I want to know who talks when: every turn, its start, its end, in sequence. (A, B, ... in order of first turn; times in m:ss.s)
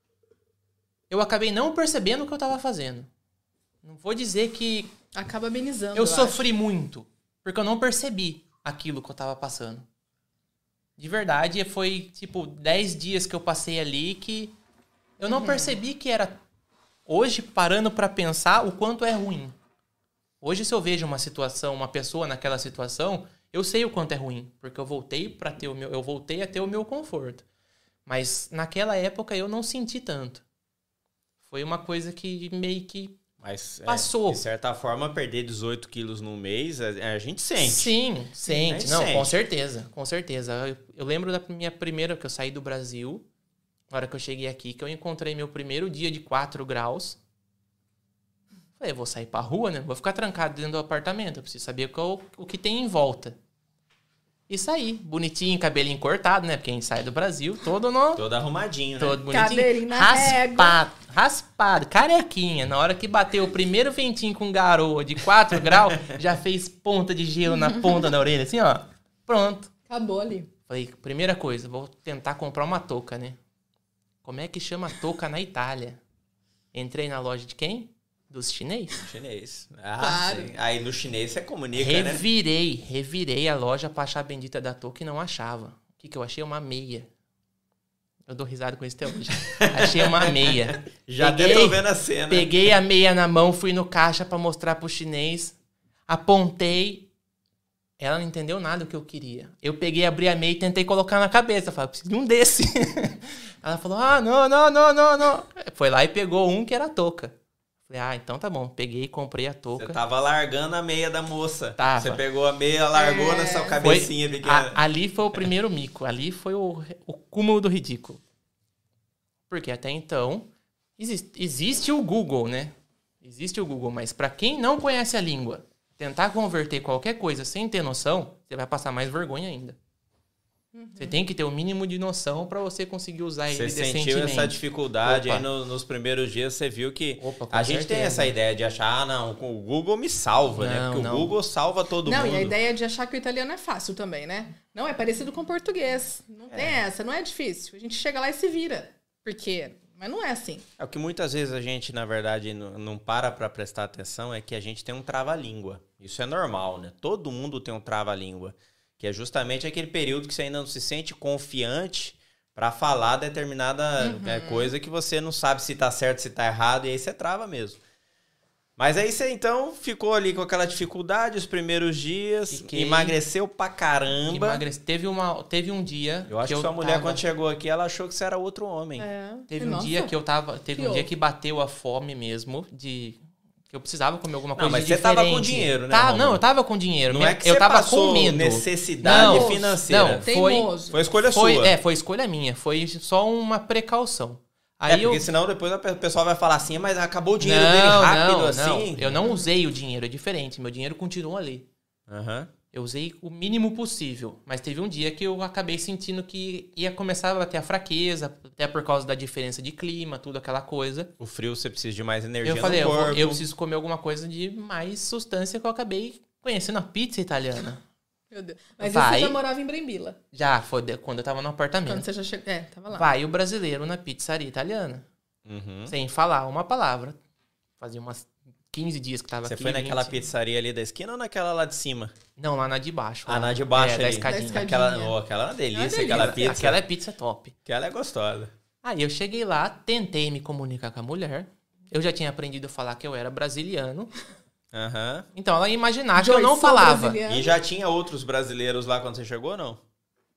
0:01.1-0:03.1 A
0:03.8-0:04.9 A
0:05.1-0:06.4 B
0:06.0-0:09.9 A
0:11.0-0:14.6 A
0:15.2-0:16.4 A
0:15.3-0:15.8 B
0:17.1-0:19.6 A
0:20.4-0:27.4 A
0:28.0-0:30.4 A
0:31.4-0:33.2 A
0:33.4-0:37.9 C
0:33.9-0:34.4 A
0:37.6-0:43.2 A
0:38.4-0:39.3 C
0:43.9-0:47.2 A
0:48.8-0:53.4 A
0:54.5-0:58.2 A
0:58.2-0:59.2 C
0:59.0-1:09.7 A
0:59.3-1:00.8 B
1:09.9-1:10.5 B
1:10.7-1:13.4 A
1:14.2-1:16.0 A
1:16.7-1:19.1 A
1:19.0-1:22.2 C
1:20.0-1:20.5 B
1:21.7-1:27.1 A
1:28.3-1:35.6 A
1:29.5-1:32.5 C
1:36.1-1:37.1 A
1:38.0-1:47.3 A
1:47.9-1:50.0 A
1:49.8-1:54.8 C
1:51.8-1:52.2 A
1:52.9-1:53.8 B
1:53.8-1:58.2 A
1:59.5-2:09.8 A
2:10.7-2:11.2 B
2:11.0-2:15.4 A
2:13.5-2:22.5 C
2:17.2-2:18.3 A
2:20.6-2:21.3 A
2:22.0-2:30.6 B
2:26.5-2:26.8 C
2:30.8-2:47.8 C
2:44.0-2:44.7 B
2:48.8-2:54.6 C
2:52.5-2:53.2 A
2:54.3-2:57.2 A
2:56.3-2:59.1 C
2:59.0-3:00.1 B
2:59.5-3:10.8 A
3:00.7-3:01.1 B
3:04.6-3:06.4 C
3:07.1-3:10.3 C
3:09.0-3:11.0 B
3:10.9-3:11.7 C
3:11.3-3:15.2 A
3:14.9-3:19.2 C
3:17.4-3:21.7 A
3:19.2-3:19.5 B
3:22.1-3:22.5 C
3:22.7-3:31.1 A
3:31.2-3:33.4 C
3:32.4-3:37.8 A
3:38.3-3:40.2 B
3:38.8-3:39.4 A
3:40.3-3:42.0 A
3:41.9-3:43.1 B
3:42.9-3:45.0 A
3:45.4-3:45.9 C
3:45.9-3:47.2 A
3:47.8-3:50.2 A
3:49.4-3:52.1 C
3:52.4-3:54.7 A
3:53.3-3:56.8 C
3:54.3-3:55.1 B
3:55.7-3:56.4 B
3:56.0-3:57.6 A
3:57.6-3:58.5 C
3:58.8-4:04.1 A
4:04.7-4:05.3 C
4:05.3-4:07.2 A
4:06.2-4:07.5 B
4:07.3-4:09.8 C